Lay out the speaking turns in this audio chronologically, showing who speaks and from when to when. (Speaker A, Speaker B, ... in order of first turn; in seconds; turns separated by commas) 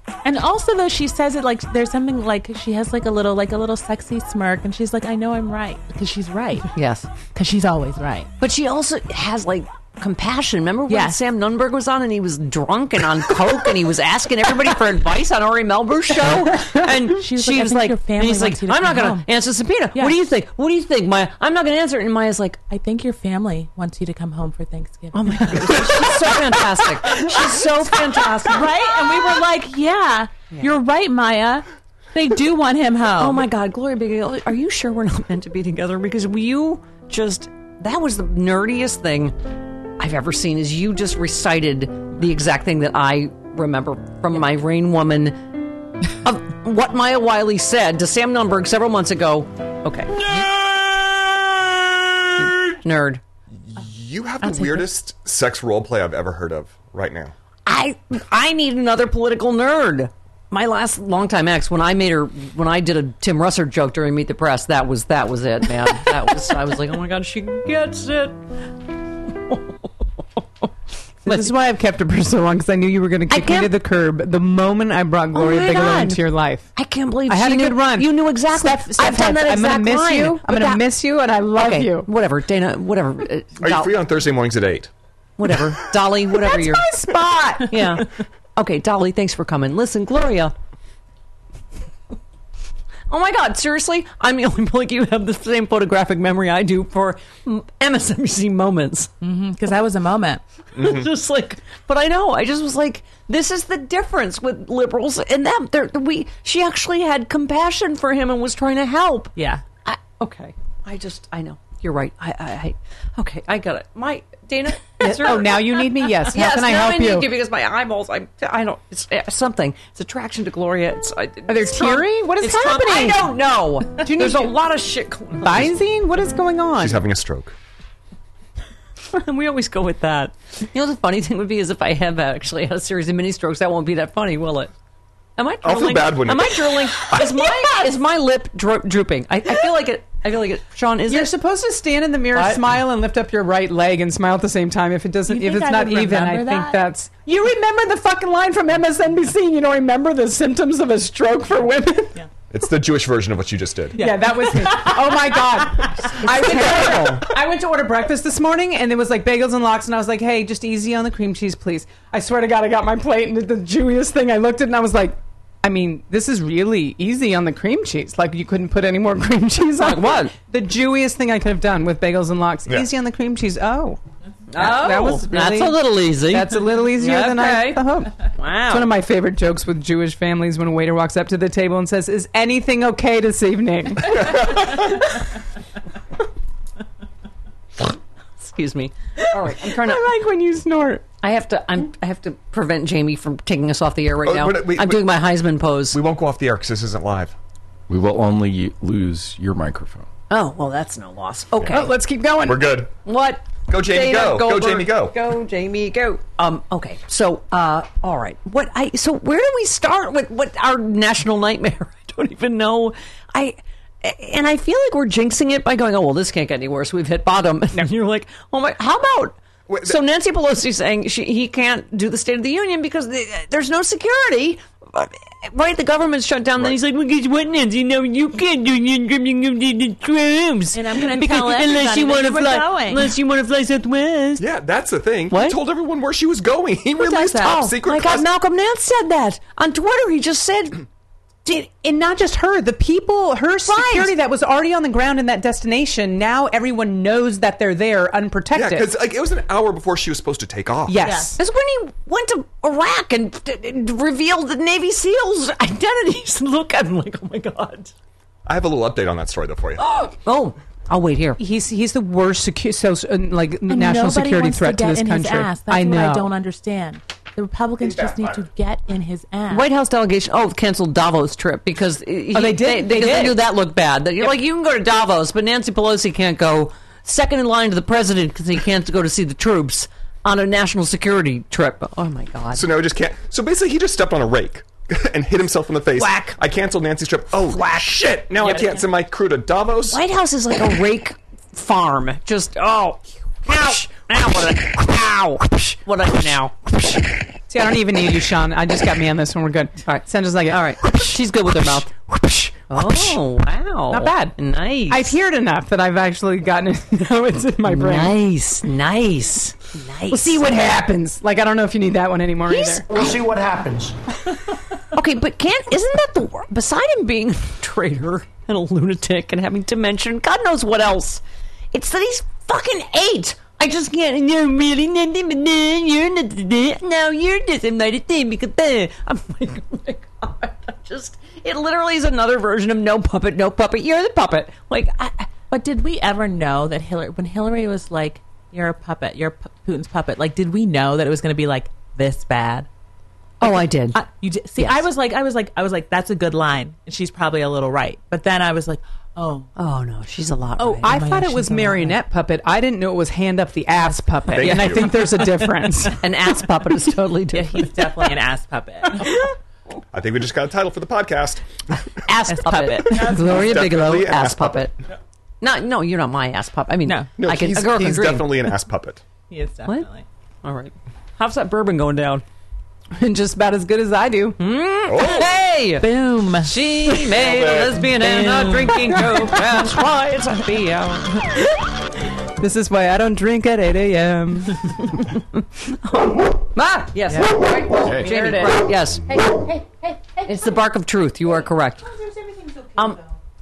Speaker A: 0.2-6.7, Speaker B: 6.7-7.1, Speaker A: 7.3-8.3, Speaker B: 8.4-22.6, Speaker A: 10.9-11.2, Speaker A: 16.9-19.2, Speaker A: 22.7-26.1, Speaker B: 25.1-28.7, Speaker A: 28.4-33.4, Speaker B: 33.2-39.4, Speaker B: 40.0-50.6, Speaker B: 52.4-53.2, Speaker C: 53.7-57.3, Speaker A: 54.4-54.9, Speaker B: 57.6-68.4, Speaker B: 69.2-70.7, Speaker B: 71.2-71.5, Speaker D: 71.2-76.7, Speaker B: 73.3-73.7, Speaker B: 75.3-76.2, Speaker B: 76.8-80.8, Speaker D: 77.3-82.1, Speaker B: 81.5-83.9, Speaker C: 83.6-84.9, Speaker B: 85.4-86.9, Speaker D: 86.3-87.9, Speaker B: 87.6-90.5, Speaker B: 93.1-99.1, Speaker A: 99.2-100.4, Speaker C: 100.8-101.1, Speaker B: 100.8-125.7, Speaker A: 109.3-109.6, Speaker D: 115.0-117.3, Speaker D: 121.5-123.2, Speaker D: 124.0-124.5, Speaker D: 125.4-127.0, Speaker C: 126.8-127.5, Speaker B: 129.1-134.7, Speaker B: 135.4-141.3, Speaker C: 135.6-137.2, Speaker D: 141.1-152.2, Speaker B: 142.3-142.6, Speaker A: 145.3-146.8, Speaker C: 152.5-154.0, Speaker A: 153.9-156.1, Speaker D: 154.0-174.0, Speaker B: 156.2-157.2, Speaker B: 169.8-170.3, Speaker B: 174.5-179.0, Speaker D: 174.6-184.8, Speaker C: 184.3-184.7, Speaker B: 188.4-190.1, Speaker D: 189.2-191.1, Speaker B: 191.2-196.0, Speaker C: 194.2-195.2, Speaker C: 195.9-197.3, Speaker E: 197.9-200.1, Speaker B: 200.3-201.9, Speaker C: 201.6-201.8, Speaker D: 201.7-202.7, Speaker C: 202.4-202.9, Speaker B: 203.0-234.4, Speaker C: 203.7-205.2, Speaker C: 219.7-220.0, Speaker A: 230.7-233.2, Speaker C: 234.4-238.2, Speaker B: 235.3-235.6, Speaker B: 237.0-240.8, Speaker D: 241.4-248.9, Speaker B: 243.7-244.1, Speaker C: 248.5-251.0, Speaker D: 250.9-251.4, Speaker A: 251.0-251.3, Speaker B: 251.4-257.9, Speaker C: 258.4-259.8, Speaker B: 259.8-261.4, Speaker D: 261.4-266.3, Speaker A: 263.7-269.7, Speaker C: 267.8-268.4, Speaker B: 269.5-282.7, Speaker D: 272.3-273.4, Speaker C: 282.5-290.0, Speaker B: 285.9-286.4, Speaker B: 287.4-288.8, Speaker B: 289.9-297.3, Speaker D: 297.5-303.2, Speaker B: 299.9-301.9, Speaker B: 302.7-305.1, Speaker D: 303.9-304.4, Speaker D: 304.9-308.1, Speaker B: 307.6-310.5, Speaker D: 310.1-313.1, Speaker B: 312.4-313.9, Speaker B: 314.9-321.2, Speaker B: 321.7-335.3, Speaker A: 335.5-342.7, Speaker B: 343.4-344.0, Speaker A: 343.4-349.5, Speaker B: 344.6-344.8, Speaker B: 349.6-351.1, Speaker D: 350.6-356.1, Speaker A: 350.8-352.0, Speaker B: 353.8-354.7, Speaker C: 354.3-355.0, Speaker B: 356.0-358.1, Speaker A: 357.3-359.2, Speaker C: 359.9-361.4, Speaker B: 362.0-364.7, Speaker A: 362.3-363.6, Speaker C: 362.9-364.7, Speaker B: 365.4-368.5, Speaker C: 367.2-369.0, Speaker A: 369.3-370.0, Speaker B: 370.4-372.2, Speaker D: 372.9-374.4, Speaker B: 374.4-381.4, Speaker C: 374.9-375.3, Speaker A: 375.8-376.6, Speaker C: 377.1-377.8, Speaker D: 378.7-379.7, Speaker D: 382.4-384.9, Speaker B: 384.9-389.5, Speaker D: 386.6-388.6, Speaker B: 390.2-391.9, Speaker B: 392.7-393.0